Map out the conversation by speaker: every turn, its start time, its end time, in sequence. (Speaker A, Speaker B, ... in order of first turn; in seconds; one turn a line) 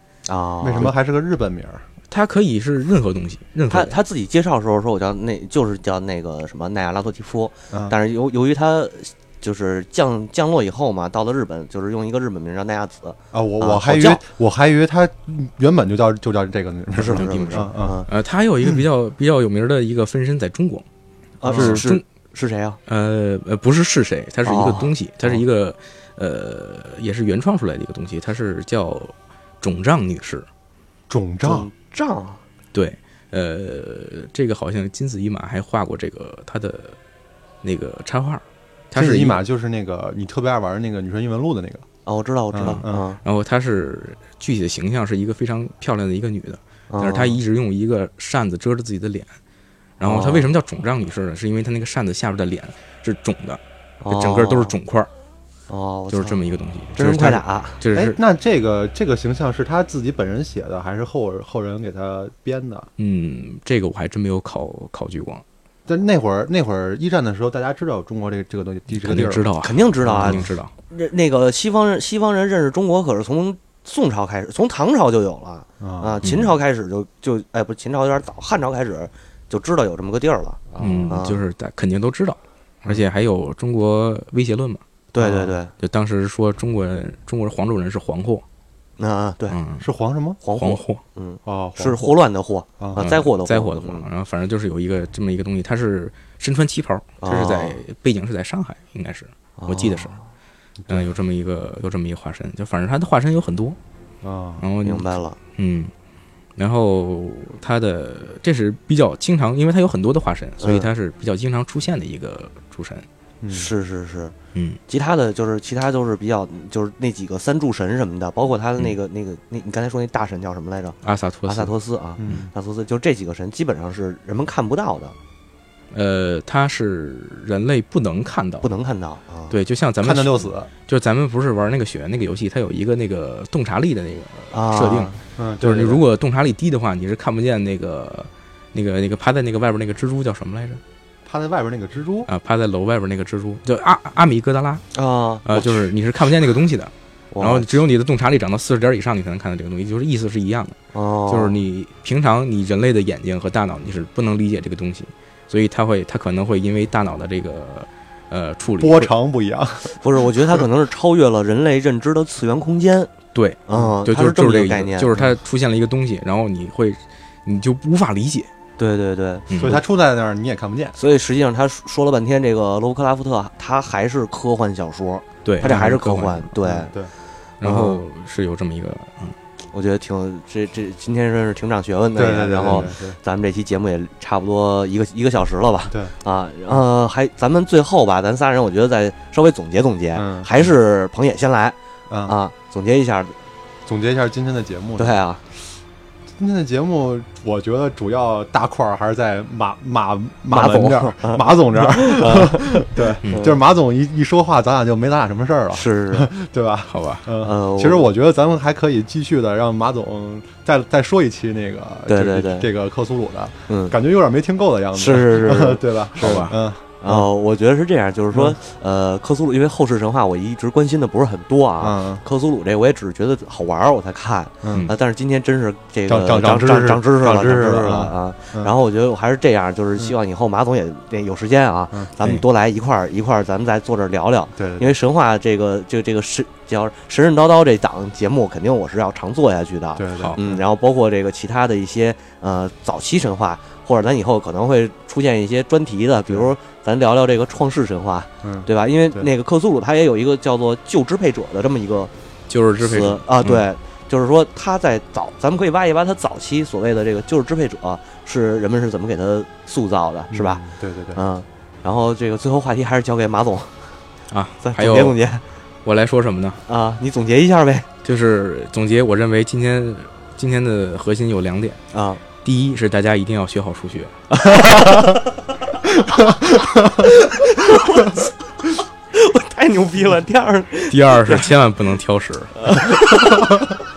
Speaker A: 0.3-0.9
Speaker B: 0.6-1.8
Speaker C: 2.1-4.0
Speaker A: 3.7-14.2
Speaker B: 13.3-18.0
Speaker A: 16.9-18.1
Speaker C: 17.1-20.8
Speaker A: 21.4-22.8
Speaker C: 21.4-22.0
Speaker B: 21.5-21.9
Speaker C: 22.9-30.5
Speaker A: 24.4-25.4
Speaker B: 31.1-31.7
Speaker A: 31.4-32.4
Speaker C: 32.7-37.0
Speaker C: 37.6-39.4
Speaker B: 39.0-41.8
Speaker A: 42.0-43.2
Speaker B: 42.5-43.0
Speaker C: 42.6-49.3
Speaker A: 46.9-47.4
Speaker C: 50.0-55.1
Speaker A: 50.0-50.5
Speaker A: 54.0-54.7
Speaker A: 55.7-56.4
Speaker C: 56.1-58.2
Speaker A: 56.9-57.8
Speaker B: 57.9-62.9
Speaker C: 63.0-65.4
Speaker B: 65.9-70.5
Speaker C: 69.0-70.7
Speaker A: 69.6-81.4
Speaker B: 75.8-76.2
Speaker C: 76.2-76.5
Speaker C: 80.8-84.8
Speaker A: 85.1-85.7
Speaker B: 85.2-85.5
Speaker C: 85.8-88.4
Speaker A: 89.0-89.6
Speaker C: 89.5-89.9
Speaker B: 89.8-90.4
Speaker A: 90.4-94.0
Speaker C: 90.6-91.0
Speaker B: 91.5-92.1
Speaker C: 93.0-100.1
Speaker A: 97.2-97.8
Speaker A: 99.6-100.2
Speaker C: 100.9-103.8
Speaker B: 104.2-104.6
Speaker C: 104.6-105.9
Speaker A: 104.8-105.4
Speaker C: 106.6-113.0
Speaker A: 110.6-110.9
Speaker B: 113.4-113.7
Speaker A: 113.5-114.3
Speaker C: 114.5-114.8
Speaker A: 114.9-125.1
Speaker C: 121.0-121.7
Speaker B: 122.2-122.5
Speaker C: 125.9-128.7
Speaker A: 128.6-129.6
Speaker C: 129.5-140.8
Speaker B: 130.0-130.7
Speaker A: 134.5-135.2
Speaker B: 135.4-136.0
Speaker B: 141.2-142.3
Speaker C: 142.3-144.8
Speaker A: 144.9-145.7
Speaker C: 145.4-150.8
Speaker A: 147.3-147.7
Speaker A: 150.9-151.6
Speaker C: 151.3-159.1
Speaker B: 158.8-160.0
Speaker A: 160.0-163.1
Speaker C: 163.3-168.5
Speaker A: 163.7-165.1
Speaker A: 168.8-169.5
Speaker C: 169.5-169.8
Speaker B: 169.5-171.0
Speaker A: 171.0-176.9
Speaker C: 175.4-176.5
Speaker B: 176.7-177.1
Speaker C: 177.6-179.4
Speaker A: 177.6-178.0
Speaker A: 179.7-193.3
Speaker B: 182.1-183.2
Speaker B: 190.2-190.5
Speaker B: 192.1-192.3
Speaker B: 193.8-195.6
Speaker A: 195.0-195.4
Speaker B: 196.4-217.3
Speaker A: 200.5-203.6
Speaker C: 203.2-203.5
Speaker A: 205.7-206.3
Speaker C: 206.9-207.2
Speaker A: 207.4-208.1
Speaker A: 212.1-212.7
Speaker A: 213.7-213.9
Speaker A: 214.9-252.1
Speaker C: 216.2-216.5
Speaker B: 221.8-222.2
Speaker B: 224.6-224.9
Speaker B: 226.1-228.7
Speaker B: 234.6-234.9
Speaker B: 239.9-240.6
Speaker B: 248.4-249.3
Speaker C: 252.5-253.6
Speaker A: 252.8-260.6
Speaker B: 260.3-261.2
Speaker A: 261.1-263.9
Speaker C: 264.3-265.2
Speaker A: 264.6-265.4
Speaker C: 265.8-266.6
Speaker A: 266.7-267.9
Speaker C: 268.0-271.8
Speaker A: 271.9-272.2
Speaker C: 272.4-274.1
Speaker A: 274.3-275.2
Speaker B: 276.1-277.1
Speaker A: 276.9-278.3
Speaker A: 279.1-281.5
Speaker C: 280.9-282.6
Speaker A: 282.6-283.4
Speaker B: 283.2-283.6